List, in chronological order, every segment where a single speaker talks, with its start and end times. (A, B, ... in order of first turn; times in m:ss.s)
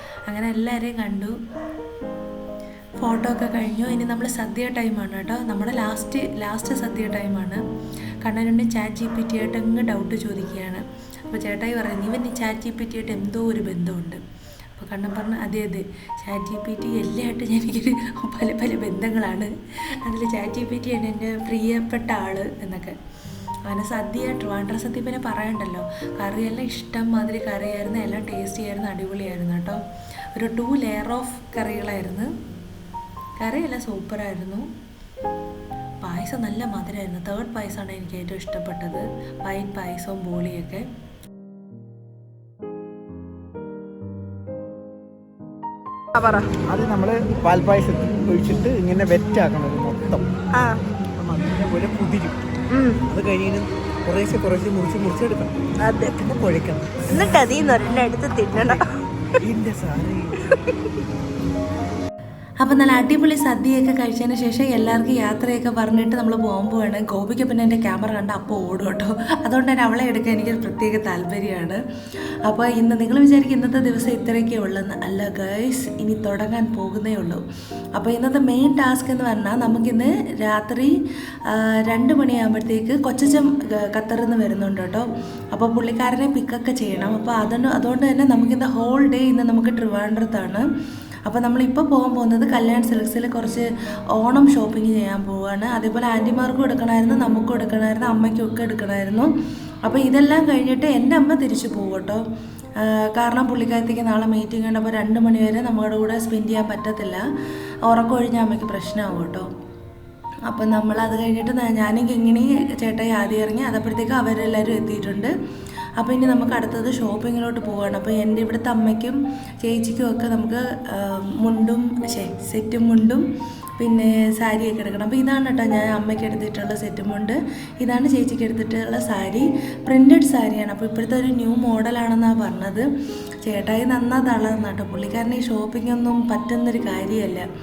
0:00.3-0:01.3 A
0:03.0-0:07.6 A
0:08.2-0:14.2 A
0:14.8-0:19.5 A
0:20.0-0:23.0 A
0:23.7-0:29.8 A
0:30.3-0:32.3 A
0:33.4-0:34.6 A
0:36.0-0:40.9 A
0:46.2-0:46.5 B
0:46.6-0:50.2 C
0:50.5-0:50.8 B
0:51.2-0:52.4 C
0:52.7-0:53.0 B
0:53.1-0:55.6 C
0:55.8-0:56.2 B
0:56.1-0:57.5 C
0:57.1-0:58.8 B
0:59.4-1:00.3 C
1:02.6-1:11.8 A
1:12.5-1:17.4 A
1:18.0-1:20.9 A
1:21.5-1:30.6 A
1:31.2-1:33.6 A
1:34.2-1:39.3 A
1:39.8-1:42.2 A
1:42.8-1:47.2 A
1:47.9-1:49.5 A
1:50.5-1:55.3 A
1:56.0-2:03.2 A
2:03.8-2:12.9 A
2:13.4-2:17.4 A